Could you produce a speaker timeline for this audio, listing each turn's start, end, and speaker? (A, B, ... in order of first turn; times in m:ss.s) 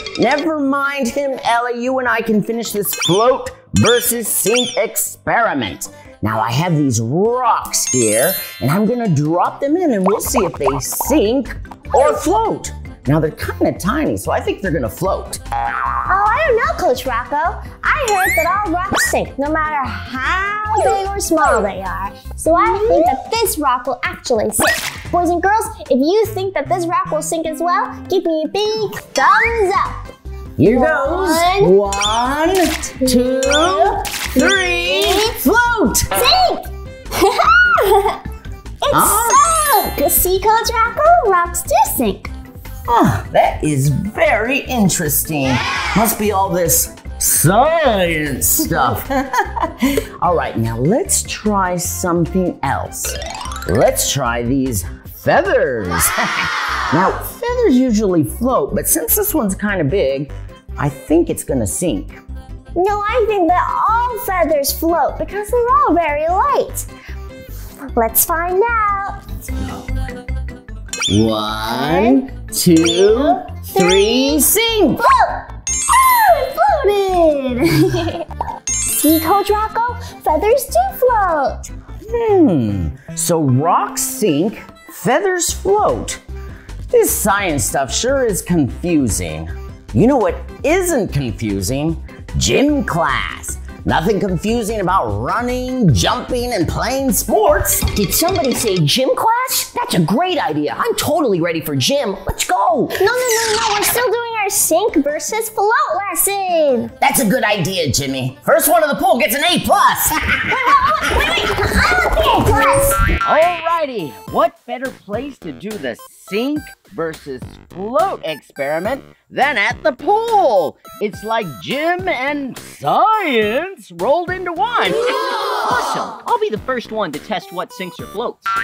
0:00.2-0:15.4 A
0:11.9-0:12.2 B
0:16.1-0:30.1 B
0:30.6-0:36.1 A
0:30.7-0:31.7 B
0:33.1-0:35.4 B
0:36.1-0:38.2 B
0:38.8-0:42.3 B
0:38.9-0:39.4 A
0:42.9-1:02.2 A
1:02.8-1:06.9 B
1:07.9-1:09.2 B
1:11.1-1:15.0 A
1:11.7-1:12.3 B
1:12.8-1:18.3 B
1:18.8-1:21.7 B
1:22.0-1:26.2 A
1:26.9-1:37.9 A
1:37.9-1:43.0 C
1:43.0-1:46.9 B
1:47.0-1:50.8 A
1:50.5-1:53.1 B
1:53.2-2:05.1 A
2:05.6-2:08.4 D